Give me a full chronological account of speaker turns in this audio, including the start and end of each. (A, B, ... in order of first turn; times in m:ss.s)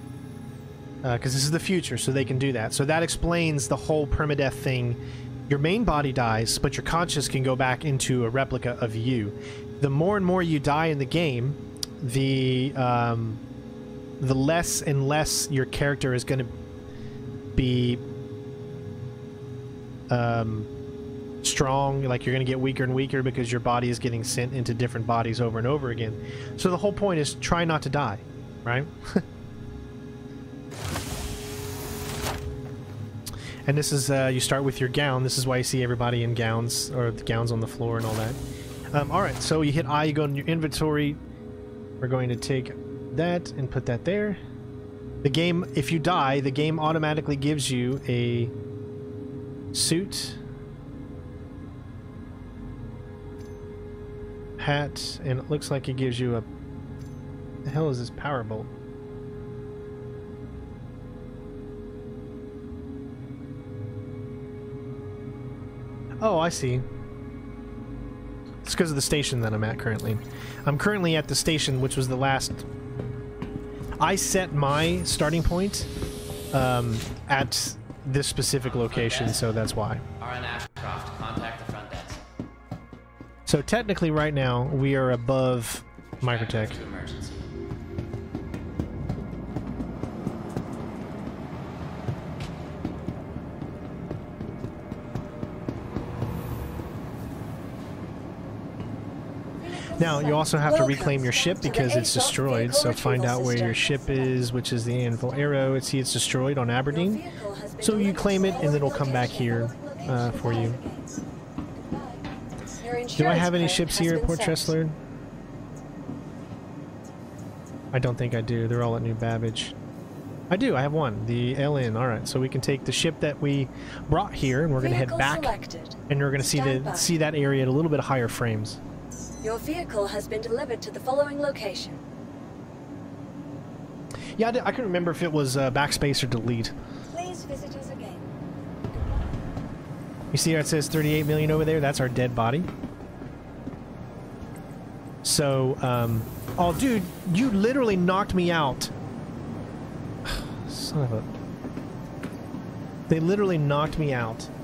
0:01.0-0:13.4 A
0:14.2-0:16.5 A
0:17.6-0:18.0 A
0:20.1-0:20.7 A
0:21.4-0:29.2 A
0:33.7-0:38.4 A
0:38.9-0:41.2 A
0:42.0-0:44.4 A
0:45.2-0:48.5 A
0:49.7-0:50.4 A
0:54.6-0:56.4 A
0:57.6-0:58.7 A
1:06.2-1:06.8 A
1:08.6-1:12.7 A
1:14.0-1:15.9 A
1:16.5-1:20.0 A
1:18.6-1:19.5 B
1:20.2-1:22.2 B
1:23.5-1:26.8 A
1:26.2-1:27.4 B
1:39.6-1:45.9 C
1:40.0-1:47.2 A
1:46.9-1:51.2 C
1:47.8-1:50.8 A
1:51.9-1:52.2 C
1:52.8-1:54.8 C
1:53.2-1:55.0 A
1:57.9-1:59.8 A
2:00.5-2:05.5 A
2:04.8-2:07.1 C
2:06.1-2:08.8 A
2:09.4-2:12.0 C
2:14.4-2:16.7 A
2:17.1-2:18.2 C
2:20.3-2:22.7 A
2:25.2-2:28.9 A
2:30.3-2:31.3 A
2:33.1-2:34.5 A